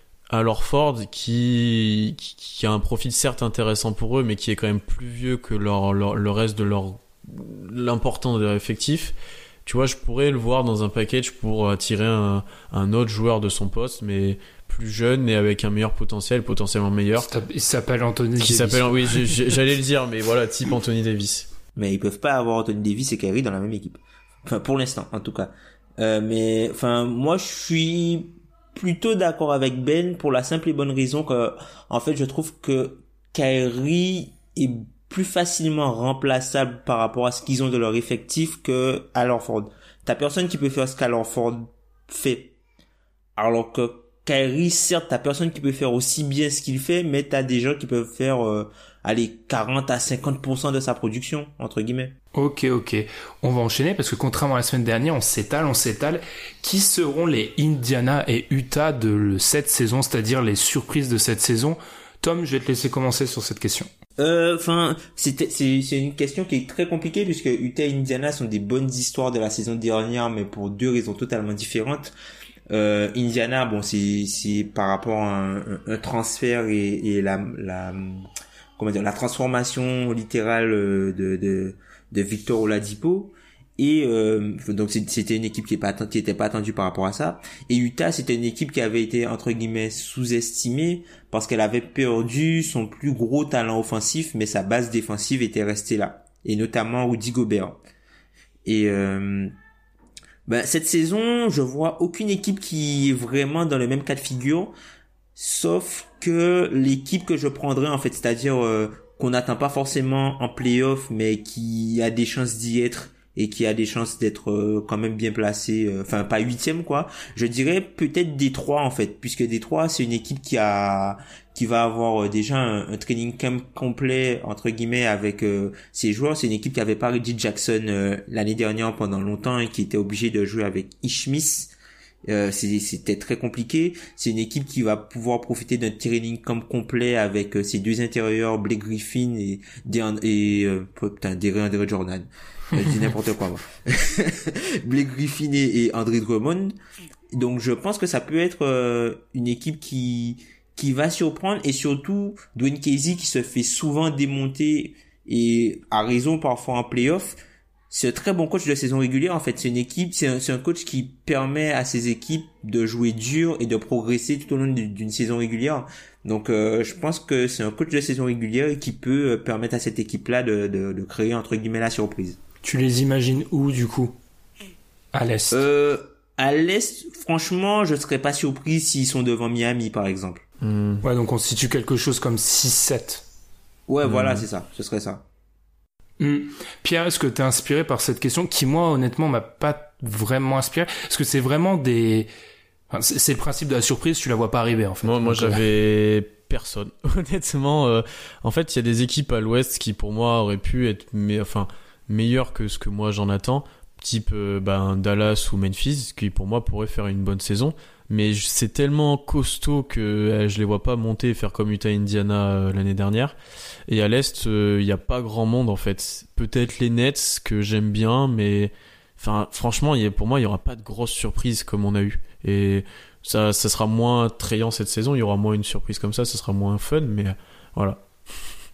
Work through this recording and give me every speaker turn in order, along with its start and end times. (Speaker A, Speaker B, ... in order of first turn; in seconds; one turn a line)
Speaker A: 0.3-9.1
Speaker A: 9.7-17.3
Speaker B: 17.3-19.4
Speaker A: 18.4-21.5
Speaker C: 21.8-42.5
Speaker C: 43.4-52.1
Speaker B: 52.4-63.9
Speaker C: 64.2-72.1
Speaker C: 72.7-78.2
Speaker C: 78.8-97.8
Speaker C: 98.7-99.5
Speaker C: 100.5-104.7
Speaker C: 105.4-131.7
Speaker C: 132.3-146.7
Speaker C: 147.3-157.4
Speaker C: 157.9-172.4
Speaker B: 172.6-174.2
Speaker B: 175.1-175.6
Speaker C: 175.5-180.4
Speaker A: 180.6-181.0
Speaker B: 181.0-183.2
Speaker C: 183.9-185.2
Speaker A: 184.0-184.5
Speaker B: 186.2-192.3
Speaker B: 192.9-195.6
Speaker A: 195.0-213.3
Speaker A: 213.9-228.0